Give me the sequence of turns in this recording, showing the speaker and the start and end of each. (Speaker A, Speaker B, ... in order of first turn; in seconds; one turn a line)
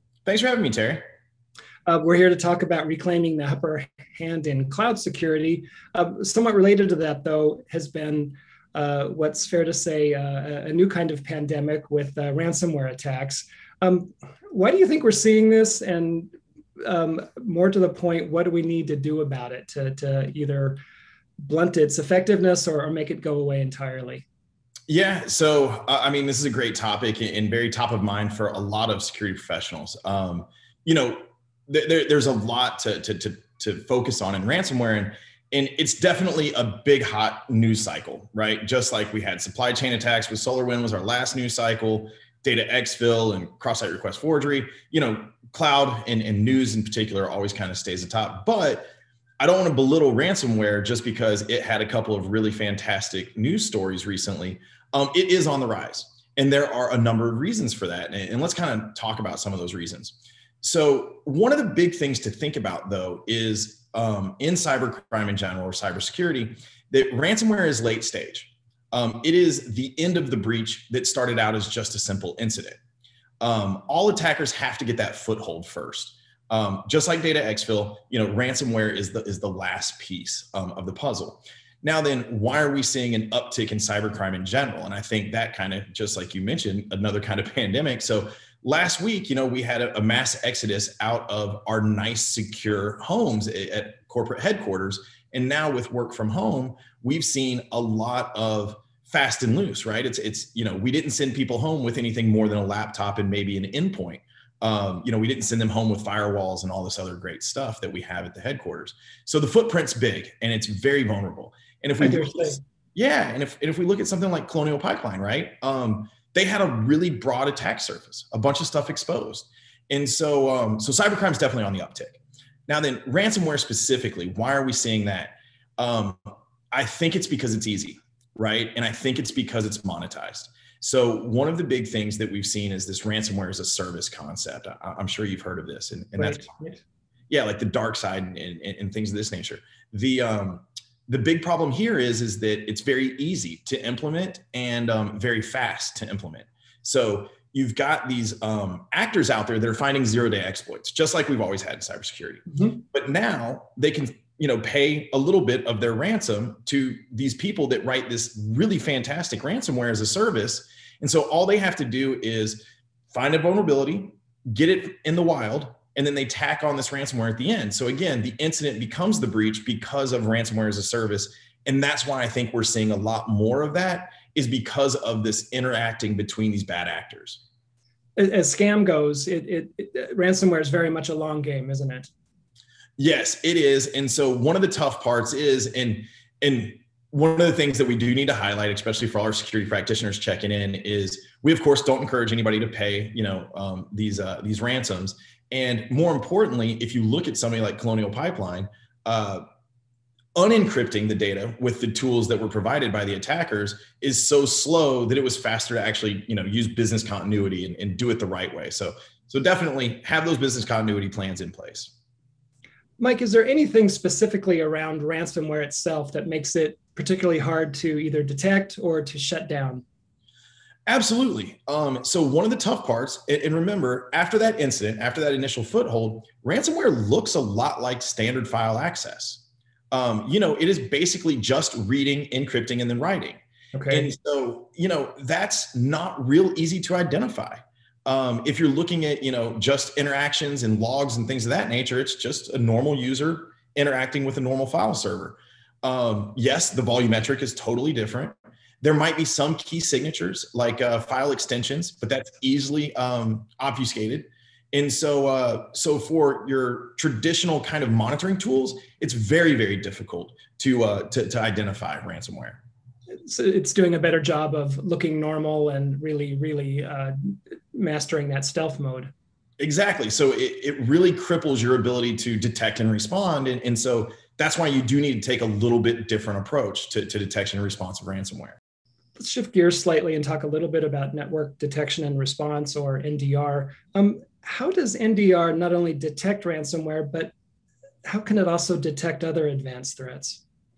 Speaker A: 0.3-1.1
Speaker B: 1.9-20.8
Speaker B: 21.4-24.2
Speaker A: 24.9-72.8
Speaker A: 73.4-126.2
Speaker B: 112.0-112.6
Speaker A: 126.7-136.5
Speaker B: 136.2-136.8
Speaker A: 137.3-177.4
Speaker B: 152.5-152.8
Speaker B: 178.2-182.1
Speaker A: 183.0-199.4
Speaker A: 200.4-211.9
Speaker B: 213.0-219.8
Speaker A: 220.9-262.6
Speaker B: 233.7-234.1
Speaker B: 263.3-269.1
Speaker A: 269.6-278.6
Speaker B: 279.2-287.3
Speaker B: 288.1-290.4